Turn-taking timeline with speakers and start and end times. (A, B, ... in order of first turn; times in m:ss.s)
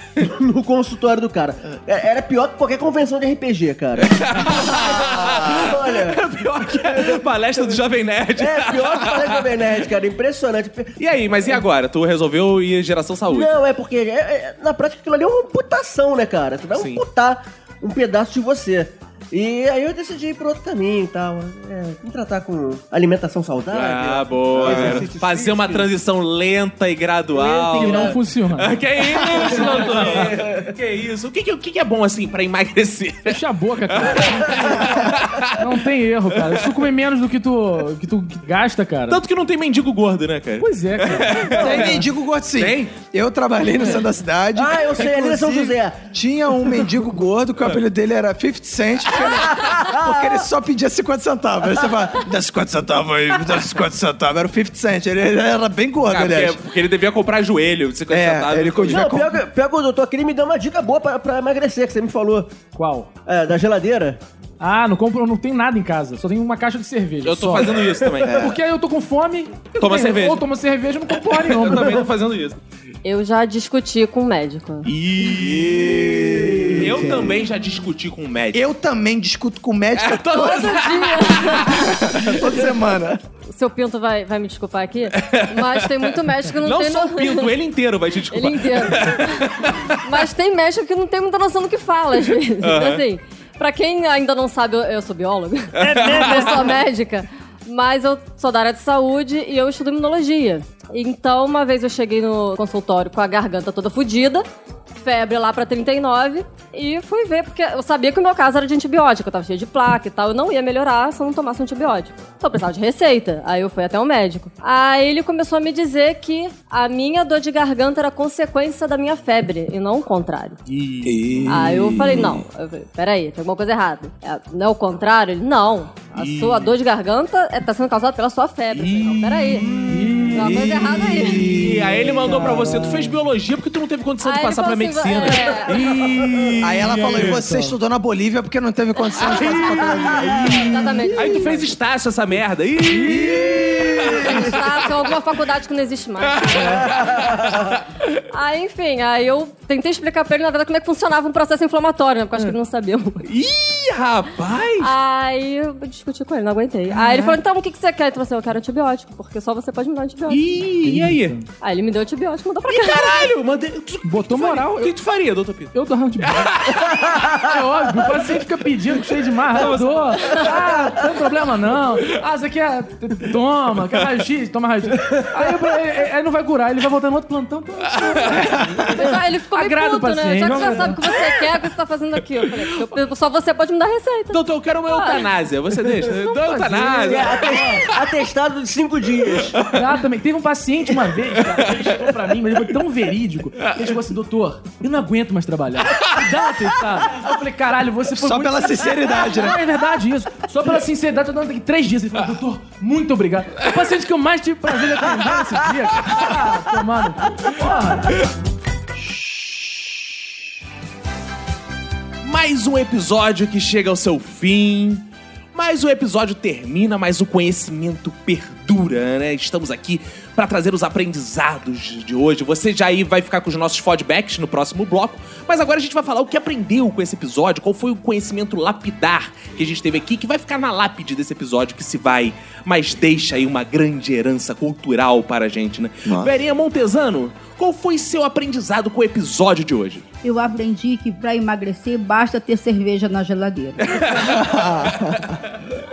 0:00.2-0:07.7 A
0:04.0-0:09.7 B
0:08.4-0:10.9 A
0:11.0-0:13.5 B
0:13.3-0:25.9 A
0:16.7-0:17.0 B
0:23.7-0:35.6 B
0:24.6-0:25.0 C
0:27.3-0:28.2 A
0:27.7-0:30.3 D
0:29.1-0:30.7 A
0:33.2-0:35.0 D
0:34.5-0:34.7 A
0:35.6-0:39.2 D
0:36.3-0:36.8 B
0:39.1-0:42.0 B
0:40.6-0:41.9 D
0:41.6-0:56.6 C
0:42.6-0:42.9 B
0:44.6-0:46.0 A
0:49.2-0:50.4 A
0:56.0-0:59.2 B
0:58.1-0:59.4 C
0:58.8-1:02.5 A
1:02.7-1:03.1 D
1:03.2-1:04.2 A
1:04.6-1:07.8 D
1:07.2-1:08.4 B
1:07.8-1:08.5 A
1:08.2-1:08.6 C
1:08.3-1:12.0 D
1:09.8-1:10.4 B
1:11.3-1:12.6 B
1:11.7-1:12.0 A
1:13.0-1:14.9 E
1:14.8-1:18.6 B
1:15.4-1:17.5 C
1:16.5-1:16.8 A
1:18.5-1:20.5 C
1:20.0-1:22.2 B
1:20.3-1:22.0 E
1:21.7-1:23.2 C
1:23.5-1:27.5 E
1:25.2-1:30.0 B
1:28.3-1:44.4 E
1:32.6-1:33.0 B
1:35.8-1:36.8 B
1:45.0-2:00.6 E
2:00.7-2:02.4 B
2:01.0-2:02.4 C
2:01.4-2:11.6 E
2:06.1-2:06.7 B
2:08.7-2:17.4 B
2:09.9-2:10.7 D
2:10.3-2:13.1 C
2:12.4-2:13.0 D
2:14.2-2:16.0 E
2:16.6-2:21.1 C
2:17.1-2:17.7 D
2:19.3-2:24.8 B
2:19.5-2:21.7 E
2:22.9-2:23.5 D
2:23.2-2:23.6 C
2:24.0-2:27.1 E
2:26.2-2:28.2 B
2:28.3-2:33.2 E
2:33.2-2:34.9 B
2:34.8-2:40.5 E
2:36.9-2:37.4 B
2:40.3-2:41.3 B
2:40.8-2:41.5 D
2:41.6-2:43.3 E
2:42.7-2:47.1 B
2:44.0-2:44.9 D
2:45.7-2:46.5 D
2:47.1-2:47.4 A
2:47.3-3:01.0 D
2:49.5-2:50.6 B
2:50.2-2:50.5 E
2:58.0-2:58.4 B
2:58.9-3:05.3 E
3:00.4-3:01.4 B
3:02.6-3:02.9 B
3:04.3-3:07.8 B
3:06.1-3:07.9 D
3:07.0-3:09.7 A
3:09.4-3:09.8 B
3:09.6-3:28.2 D
3:18.1-3:19.6 C
3:32.2-4:00.0 B
3:56.0-3:56.3 C
4:00.2-4:03.8 F
4:03.8-4:05.7 B
4:04.1-4:05.3 C